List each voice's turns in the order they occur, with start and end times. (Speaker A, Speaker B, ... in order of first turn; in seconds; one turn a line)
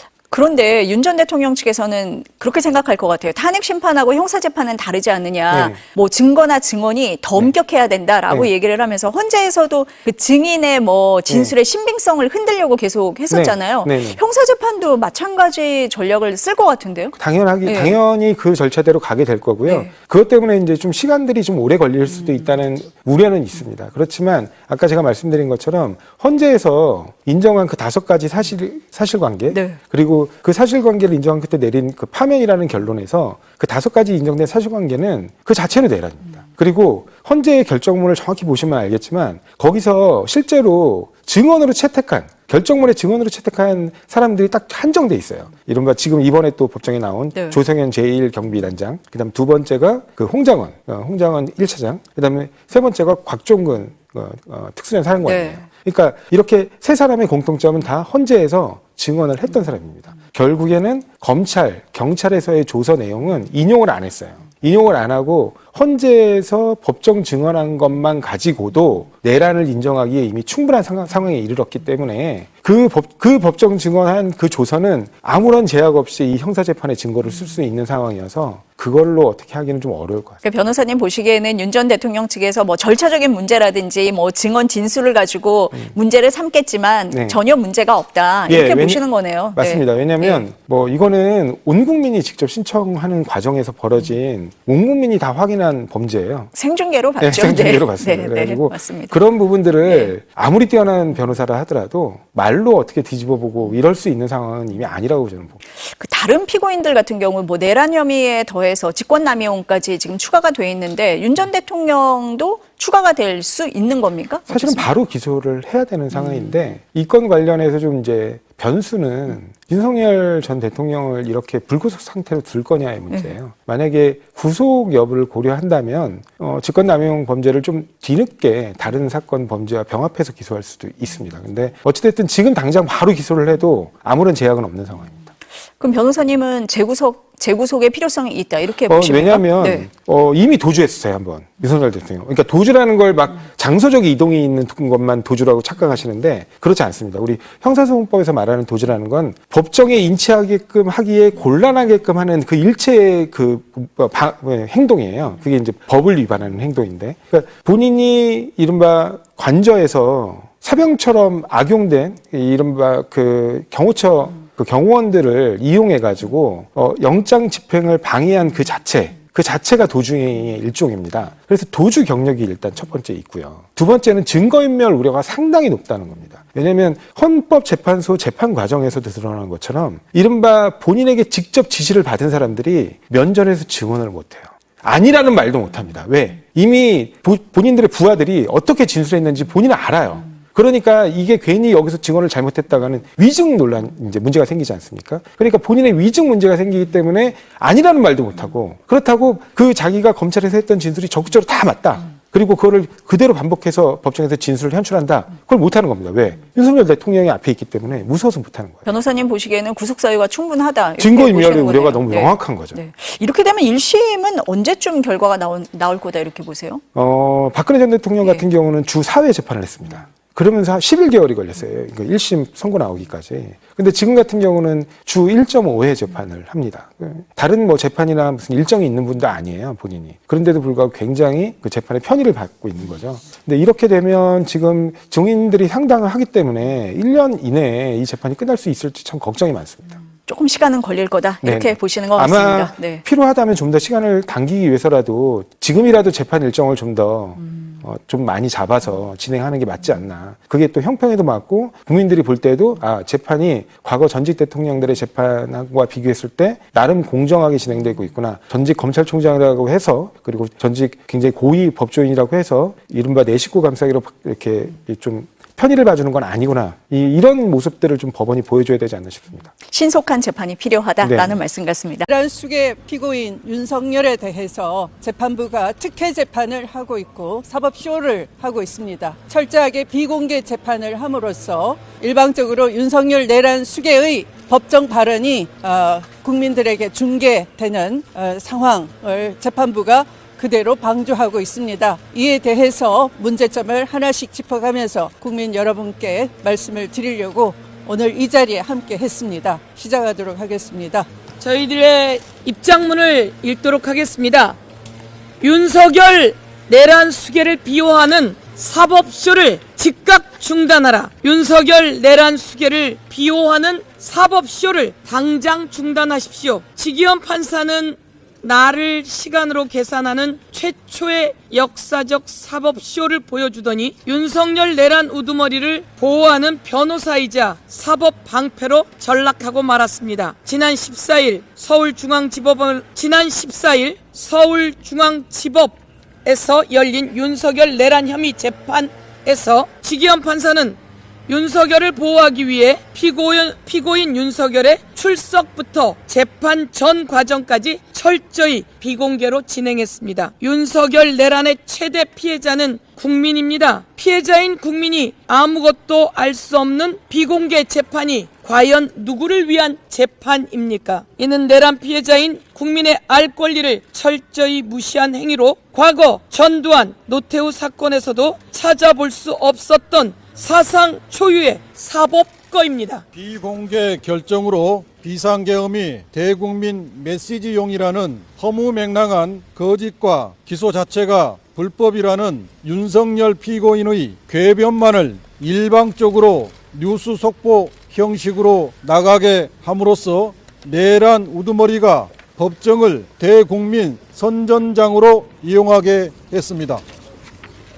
Speaker A: 0.3-17.9
Speaker B: 5.5-5.8
Speaker B: 11.3-11.5
Speaker B: 13.3-14.2
Speaker B: 17.2-80.4
Speaker A: 29.5-29.8
Speaker A: 47.3-47.6
Speaker A: 55.2-55.6
Speaker A: 80.4-90.4
Speaker B: 87.1-87.4
Speaker B: 88.5-89.0
Speaker B: 89.5-96.5
Speaker A: 96.5-99.2
Speaker B: 97.2-105.6
Speaker A: 99.9-100.1
Speaker A: 105.8-114.9
Speaker B: 114.5-135.3
Speaker A: 116.1-116.6
Speaker A: 135.8-139.9
Speaker B: 138.9-208.9
Speaker A: 208.9-216.8
Speaker B: 211.0-212.8
Speaker B: 216.9-239.9
Speaker A: 240.3-243.0
Speaker B: 241.4-269.5
Speaker A: 269.7-272.1
Speaker B: 271.0-271.4
Speaker C: 272.1-301.1
Speaker D: 301.4-304.6
Speaker D: 305.4-373.0
Speaker E: 373.1-396.8